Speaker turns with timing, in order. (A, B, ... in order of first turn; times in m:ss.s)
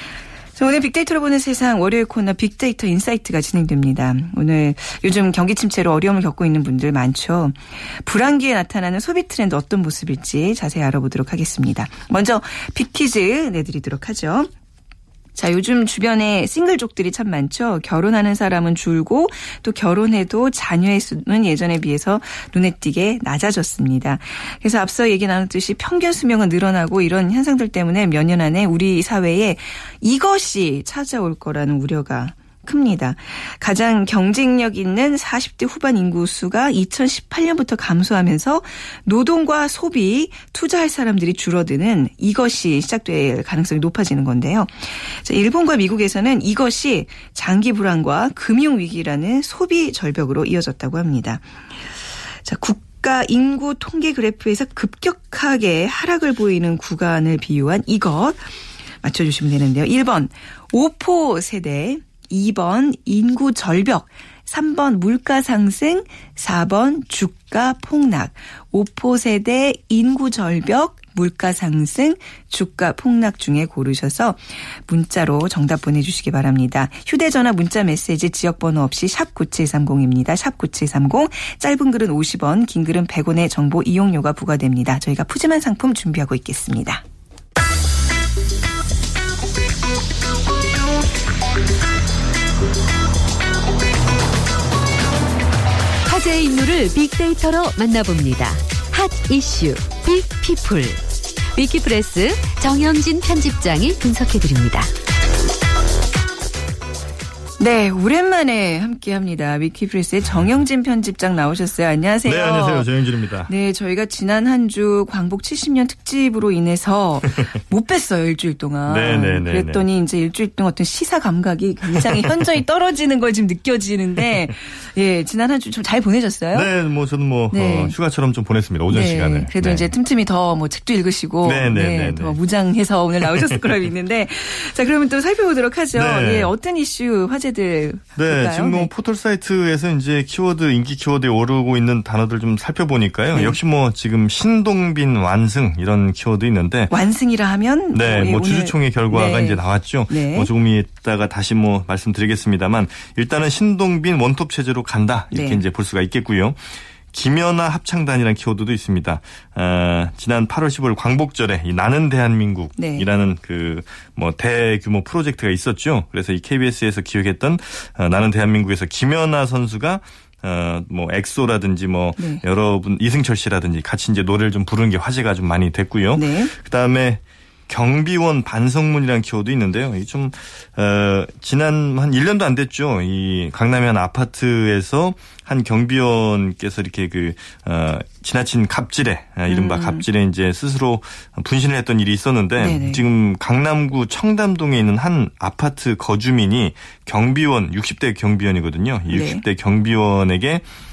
0:00.6-0:14.5 A
0:15.3-0:51.4 A
0:52.4-0:58.4 A
0:59.0-1:27.0 A
1:36.0-1:41.0 B
1:41.6-1:44.9 B
1:47.6-1:52.9 A
1:52.2-1:53.5 C
1:53.4-2:06.7 A
1:58.9-1:59.9 C
2:02.1-2:02.4 C
2:06.5-2:09.9 C
2:07.5-2:07.9 A
2:08.9-2:18.9 A
2:11.4-2:12.4 C
2:13.2-2:13.5 C
2:15.9-2:16.5 C
2:18.2-2:26.9 C
2:23.3-2:23.6 A
2:26.9-2:30.5 A
2:27.9-3:20.6 C
2:35.3-2:35.6 A
2:42.8-2:43.1 A
2:52.2-2:52.4 A
2:56.2-2:56.5 A
3:09.5-3:10.0 A
3:12.6-3:13.0 A
3:19.1-3:19.4 A